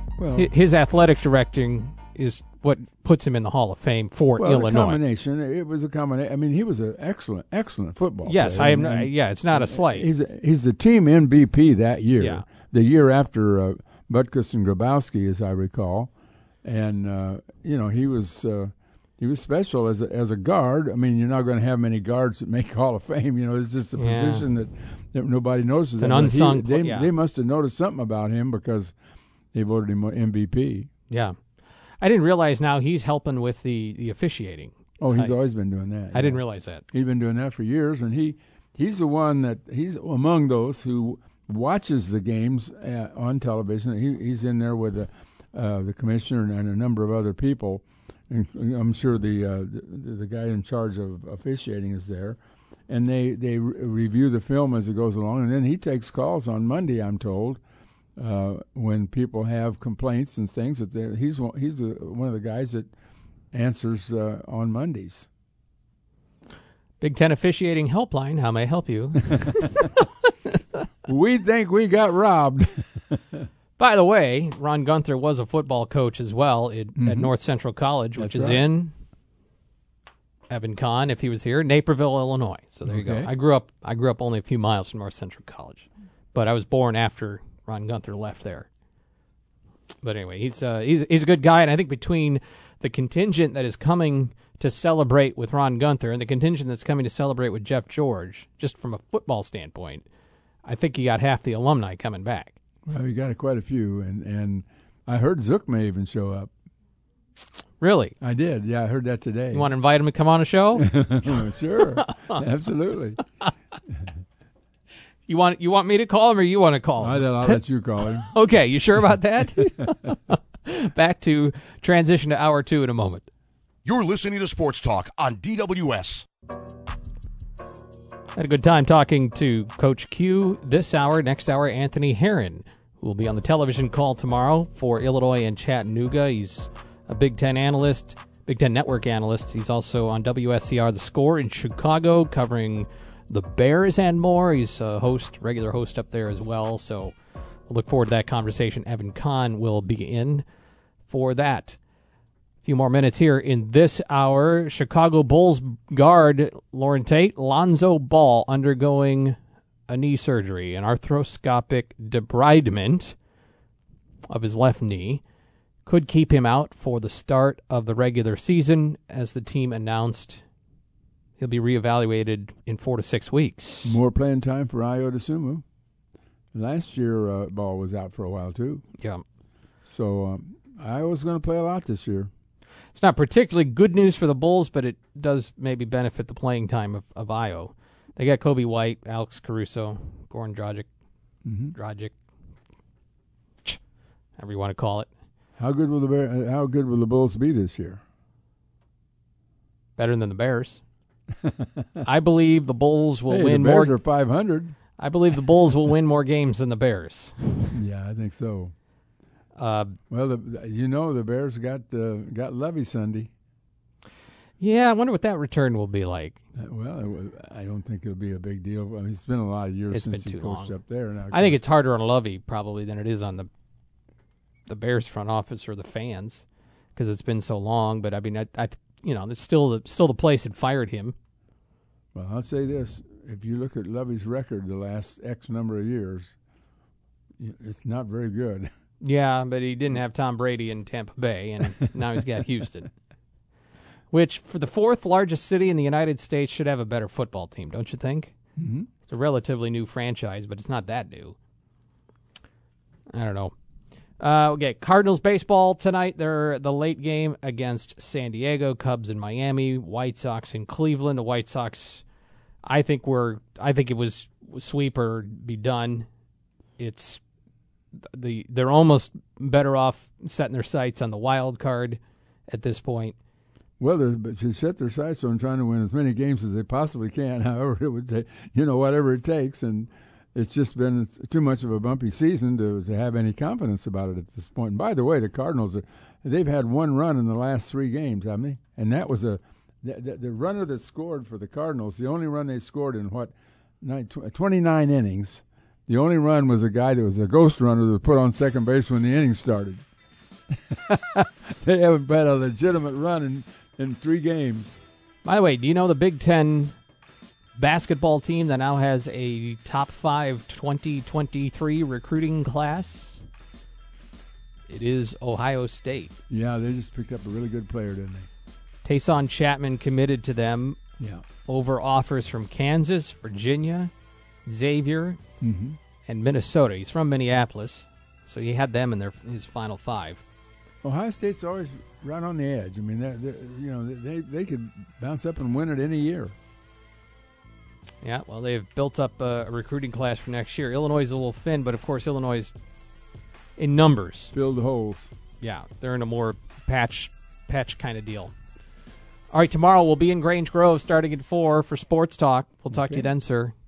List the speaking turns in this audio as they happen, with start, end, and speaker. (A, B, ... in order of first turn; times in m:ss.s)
0:00.2-0:00.5 A
0:00.4-0:05.0 B
0:04.4-0:16.1 A
0:08.3-0:10.1 B
0:12.2-0:12.4 B
0:16.6-0:28.9 A
0:24.0-0:24.5 B
0:26.0-0:27.1 B
0:29.5-0:30.9 A
0:31.1-0:31.4 B
0:32.0-0:35.3 B
0:35.0-0:36.4 A
0:36.1-0:36.8 B
0:36.9-0:52.4 A
0:52.9-0:57.6 A
0:58.2-1:02.9 A
1:03.5-1:05.3 A
1:07.0-1:10.0 B
1:11.1-1:13.5 A
1:13.8-1:18.9 B
1:17.0-1:17.3 A
1:18.2-1:18.6 A
1:20.5-1:28.7 B
1:22.9-1:23.3 A
1:30.0-1:40.0 B
1:40.6-1:42.6 B
1:42.9-1:46.5 A
1:47.8-1:48.2 B
1:48.2-1:49.7 A
1:49.5-1:51.3 B
1:50.8-1:53.2 A
1:55.3-2:03.3 B
1:57.0-1:58.3 A
2:03.8-2:06.3 C
2:08.4-2:27.2 B
2:27.7-2:30.4 B
2:31.1-2:31.8 B
2:32.6-2:39.4 B
2:39.9-2:43.2 B
2:44.3-2:45.2 B
2:45.9-2:50.4 B
2:51.4-2:54.0 B
2:53.8-2:55.6 A
2:56.5-2:58.8 A
2:59.0-2:59.2 B
2:59.9-3:02.3 A
3:03.0-3:10.9 B
3:11.4-3:11.8 A
3:11.7-3:12.2 B
3:14.4-3:15.1 B
3:15.6-3:18.0 A
3:20.0-3:20.8 B
3:21.4-3:22.1 A
3:22.0-3:24.0 B
3:23.3-3:24.8 A
3:25.0-3:27.8 B
3:27.7-3:28.7 A
3:29.6-3:30.0 B
3:30.1-3:33.3 A
3:34.6-3:36.4 B
3:36.6-3:41.6 A
3:39.9-3:40.7 B
3:41.3-3:43.5 B
3:44.7-3:51.2 B
3:52.2-3:56.4 A
3:57.4-3:58.7 A
3:59.0-4:02.9 B
4:04.1-4:08.3 B
4:08.6-4:08.9 A
4:09.0-4:11.4 B
4:13.1-4:13.5 B
4:14.2-4:22.0 B
4:22.6-4:26.1 B
4:26.8-4:27.2 B
4:28.1-4:33.2 B
4:33.8-4:59.8 A
5:00.5-5:04.8 A
5:05.2-5:06.8 B
5:07.6-5:13.2 B
5:14.7-5:16.2 B
5:16.3-5:18.3 A
5:18.8-5:20.8 B
5:21.0-5:21.2 A
5:21.4-5:23.9 B
5:24.5-5:25.2 B
5:25.4-5:25.8 A
5:26.1-5:30.2 B
5:30.8-5:36.4 A
5:38.0-5:42.6 B
5:43.6-5:44.3 B
5:44.3-5:45.1 A
5:45.4-5:48.3 B
5:49.3-5:53.5 B
5:52.7-5:53.1 A